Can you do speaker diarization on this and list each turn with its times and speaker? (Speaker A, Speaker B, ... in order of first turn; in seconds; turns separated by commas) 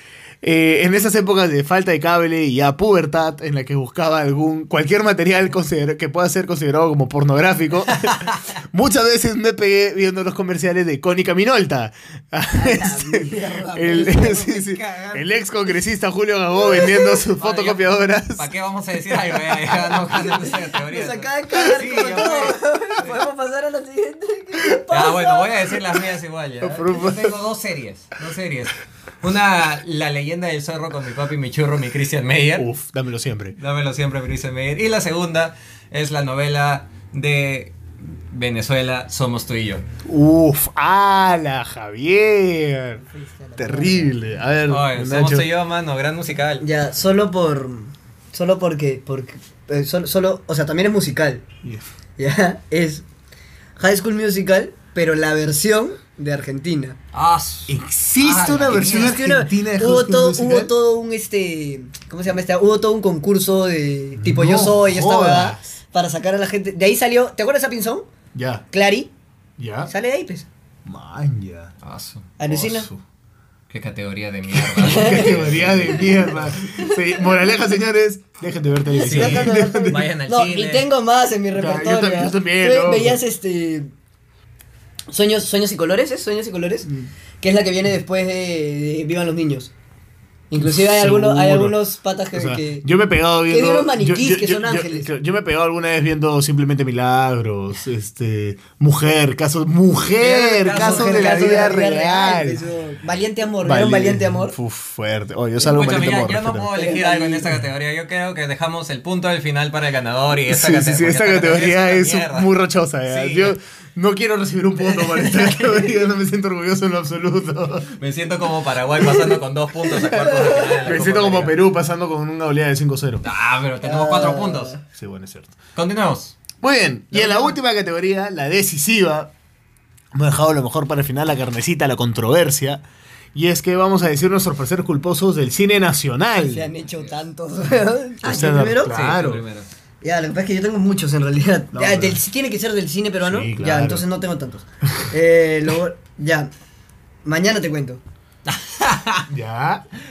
Speaker A: 0.4-18.5, Speaker B: 12.5-15.3, Speaker B: 16.6-17.2, Speaker C: 17.4-23.2, Speaker B: 20.7-25.5, Speaker C: 24.9-32.7, Speaker A: 26.6-27.4, Speaker A: 32.6-33.6, Speaker C: 33.6-39.9, Speaker A: 40.0-43.0, Speaker B: 43.0-44.2, Speaker A: 43.6-45.5, Speaker C: 44.7-46.6, Speaker B: 46.6-51.4, Speaker B: 52.2-53.1, Speaker B: 53.8-57.0, Speaker C: 57.1-59.2, Speaker A: 57.7-60.7, Speaker B: 58.7-68.1, Speaker A: 64.2-65.7, Speaker A: 68.3-68.7, Speaker B: 68.7-69.1, Speaker A: 69.6-69.9, Speaker B: 69.9-70.5, Speaker A: 70.8-71.7, Speaker C: 71.8-72.3, Speaker B: 72.4-72.9, Speaker A: 72.5-73.0, Speaker C: 73.7-76.5, Speaker A: 74.5-80.1, Speaker B: 74.8-75.4, Speaker B: 76.7-77.0, Speaker B: 78.9-83.9, Speaker C: 79.0-80.9, Speaker A: 81.6-83.2, Speaker B: 85.1-89.7, Speaker B: 90.5-92.9, Speaker A: 90.6-91.8, Speaker A: 92.3-102.6, Speaker B: 93.5-95.1, Speaker C: 100.1-101.7, Speaker B: 100.7-104.6, Speaker A: 103.6-106.7, Speaker C: 105.6-112.5, Speaker B: 106.7-107.5, Speaker A: 110.5-117.9, Speaker C: 113.1-113.6, Speaker B: 114.8-116.0, Speaker C: 117.9-121.6, Speaker B: 120.0-120.8, Speaker A: 120.8-123.2, Speaker C: 123.2-124.8, Speaker B: 123.8-124.8, Speaker A: 124.9-125.5, Speaker C: 125.8-126.4, Speaker A: 126.6-129.3, Speaker A: 130.1-132.8, Speaker A: 133.3-136.7, Speaker B: 136.4-138.9, Speaker C: 136.8-137.2, Speaker A: 138.2-139.4, Speaker C: 138.9-139.7, Speaker B: 140.0-146.5, Speaker A: 141.7-142.2, Speaker A: 143.2-144.1, Speaker B: 147.2-148.0, Speaker C: 148.5-149.3, Speaker A: 149.3-149.9